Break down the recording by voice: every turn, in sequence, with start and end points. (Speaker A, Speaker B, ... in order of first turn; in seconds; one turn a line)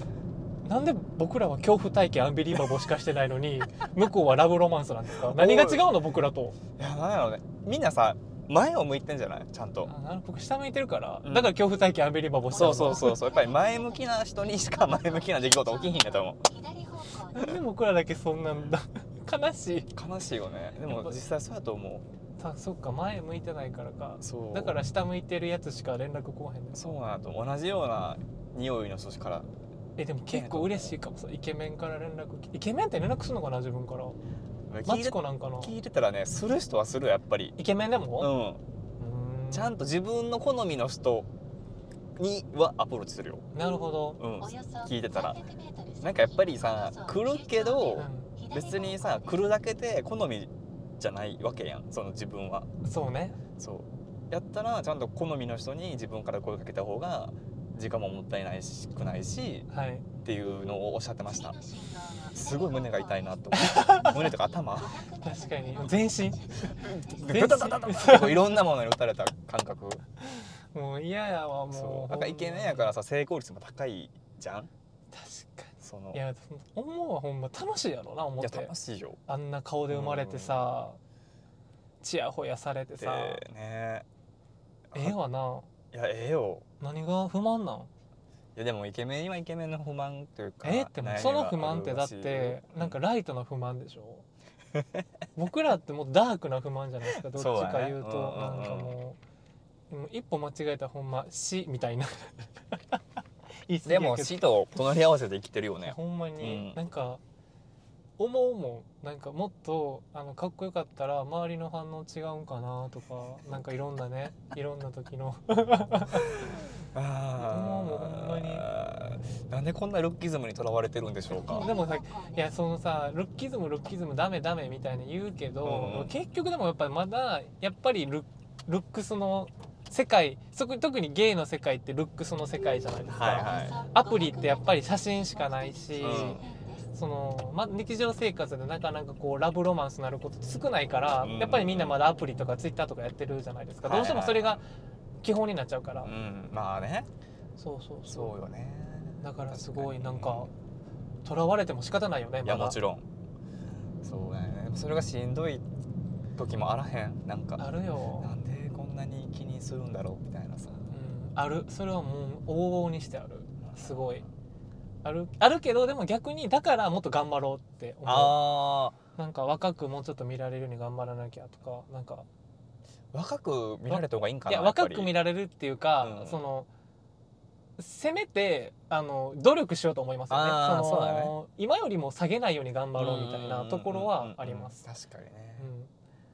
Speaker A: 0.6-6.5
Speaker B: 5.3-5.9
Speaker B: 6.8-9.9
Speaker A: 9.8-13.2
Speaker B: 11.2-11.6
Speaker C: 12.5-17.6
Speaker B: 12.5-16.4
Speaker A: 17.3-19.9
Speaker B: 19.9-22.1
Speaker A: 20.9-21.2
Speaker A: 22.4-26.9
Speaker B: 24.2-24.8
Speaker B: 26.7-29.5
Speaker A: 30.0-34.2
Speaker B: 30.3-30.9
Speaker B: 34.7-37.5
Speaker A: 34.8-35.7
Speaker A: 37.6-38.3
Speaker B: 38.2-38.6
Speaker A: 39.0-39.8
Speaker B: 39.5-41.3
Speaker B: 42.1-43.5
Speaker A: 43.5-44.2
Speaker B: 44.2-45.4
Speaker C: 44.4-49.5
Speaker B: 46.0-52.7
Speaker A: 48.0-48.3
Speaker A: 52.8-53.4
Speaker B: 53.6-59.7
Speaker A: 59.7-60.0
Speaker B: 60.2-61.6
Speaker C: 61.3-67.5
Speaker B: 62.3-65.0
Speaker A: 63.5-64.2
Speaker A: 65.2-68.5
Speaker B: 66.7-70.0
Speaker A: 70.2-72.9
Speaker B: 71.7-74.7
Speaker A: 75.1-78.7
Speaker B: 75.8-76.2
Speaker B: 78.4-79.2
Speaker A: 79.3-81.0
Speaker B: 79.9-80.7
Speaker A: 82.0-83.4
Speaker B: 83.0-84.0
Speaker B: 84.9-85.2
Speaker A: 84.9-85.7
Speaker B: 85.9-86.6
Speaker A: 86.8-87.9
Speaker B: 88.5-93.0
Speaker A: 90.6-94.2
Speaker B: 94.7-95.0
Speaker A: 95.3-99.2
Speaker B: 97.3-99.0
Speaker A: 99.9-103.0
Speaker A: 103.7-104.4
Speaker B: 103.8-106.8
Speaker A: 105.8-107.2
Speaker A: 108.2-116.4
Speaker B: 116.1-121.7
Speaker A: 117.4-118.7
Speaker C: 121.3-122.5
Speaker A: 121.5-144.6
Speaker B: 125.6-126.1
Speaker B: 133.1-133.8
Speaker C: 133.2-136.9
Speaker B: 136.0-136.4
Speaker B: 141.2-142.0
Speaker B: 143.8-144.6
Speaker A: 145.2-146.1
Speaker B: 146.0-147.1
Speaker A: 147.6-148.3
Speaker B: 148.1-150.5
Speaker A: 149.2-150.5
Speaker A: 151.2-152.8
Speaker B: 152.4-153.0
Speaker B: 154.0-155.6
Speaker B: 156.3-157.7
Speaker A: 157.6-158.3
Speaker B: 158.2-160.8
Speaker A: 160.9-164.2
Speaker B: 163.6-164.3
Speaker A: 165.0-168.5
Speaker B: 168.1-169.0
Speaker A: 169.2-172.2
Speaker B: 173.1-175.2
Speaker A: 173.9-176.7
Speaker B: 176.0-176.4
Speaker A: 177.8-184.8
Speaker B: 180.3-181.3
Speaker B: 182.9-185.7
Speaker A: 185.6-185.9